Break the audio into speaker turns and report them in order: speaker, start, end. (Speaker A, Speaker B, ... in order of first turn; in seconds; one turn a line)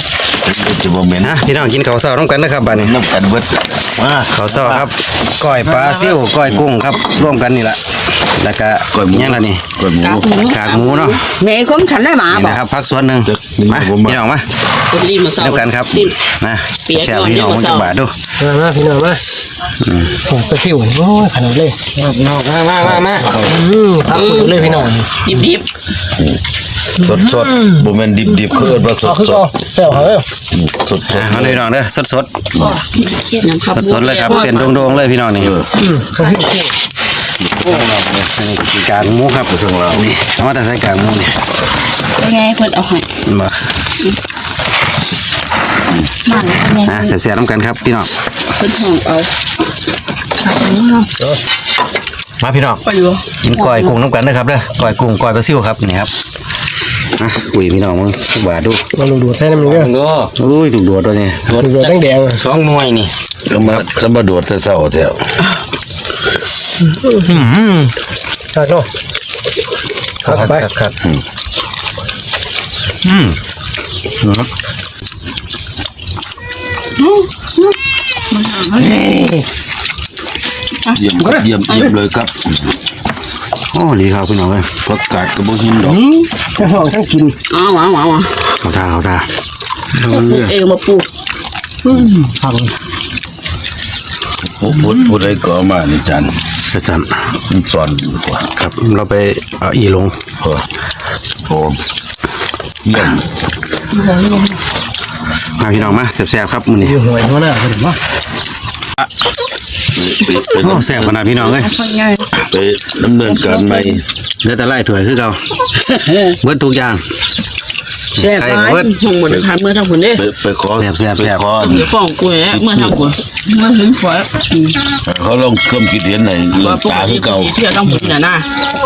Speaker A: 0.4-1.4
Speaker B: 1.2-3.0
Speaker A: 2.7-4.8
Speaker B: 4.3-9.8
Speaker A: 8.9-10.3
Speaker C: 10.0-11.2
Speaker B: 10.5-11.2
Speaker D: 11.4-12.6
Speaker B: 12.3-14.5
Speaker A: 13.3-14.2
Speaker C: 14.9-16.1
Speaker B: 15.4-18.1
Speaker C: 16.9-17.9
Speaker E: 18.4-19.4
Speaker B: 19.8-20.1
Speaker E: 20.1-21.8
Speaker B: 22.0-23.1
Speaker A: 22.7-23.6
Speaker E: 22.9-25.2
Speaker C: 24.1-24.6
Speaker C: 25.2-25.7
Speaker A: 27.0-31.6
Speaker E: 27.1-27.8
Speaker E: 29.0-30.2
Speaker B: 31.1-32.4
Speaker C: 32.9-34.9
Speaker B: 33.7-35.6
Speaker E: 35.8-36.7
Speaker B: 37.6-41.4
Speaker A: 39.5-40.1
Speaker C: 42.2-43.0
Speaker D: 42.2-42.7
Speaker B: 43.2-43.7
Speaker C: 46.3-46.8
Speaker D: 46.3-46.7
Speaker B: 46.8-48.1
Speaker C: 48.6-49.3
Speaker C: 50.4-51.1
Speaker B: 52.4-52.8
Speaker C: 52.8-53.9
Speaker B: 53.4-56.1
Speaker B: 57.2-58.8
Speaker E: 58.9-59.9
Speaker B: 59.6-63.9
Speaker E: 61.5-62.4
Speaker A: 63.5-65.4
Speaker B: 67.1-67.9
Speaker E: 68.5-68.9
Speaker E: 70.2-70.7
Speaker B: 70.2-70.9
Speaker B: 73.0-73.3
Speaker B: 74.2-74.5
Speaker C: 77.0-77.7
Speaker C: 78.3-79.0
Speaker E: 78.8-79.4
Speaker A: 80.9-82.7
Speaker B: 83.7-84.8
Speaker A: 84.8-86.0
Speaker E: 85.8-87.3
Speaker C: 87.5-88.6
Speaker B: 88.6-89.3
Speaker C: 90.0-91.1
Speaker A: 94.4-96.4
Speaker B: 96.7-97.2
Speaker A: 97.5-98.5
Speaker B: 98.5-100.2
Speaker A: 101.5-101.8
Speaker A: 102.8-103.2
Speaker C: 104.0-104.5
Speaker B: 105.5-107.0
Speaker E: 106.8-108.0
Speaker A: 109.9-111.7
Speaker B: 110.6-111.9
Speaker D: 111.7-112.3
Speaker A: 112.3-114.0
Speaker B: 114.4-115.4
Speaker B: 116.0-117.0
Speaker C: 118.1-120.2
Speaker B: 118.2-118.9
Speaker A: 120.1-121.9
Speaker B: 120.8-121.4
Speaker C: 121.5-124.8
Speaker A: 122.4-123.0
Speaker A: 125.0-127.6
Speaker C: 126.5-128.5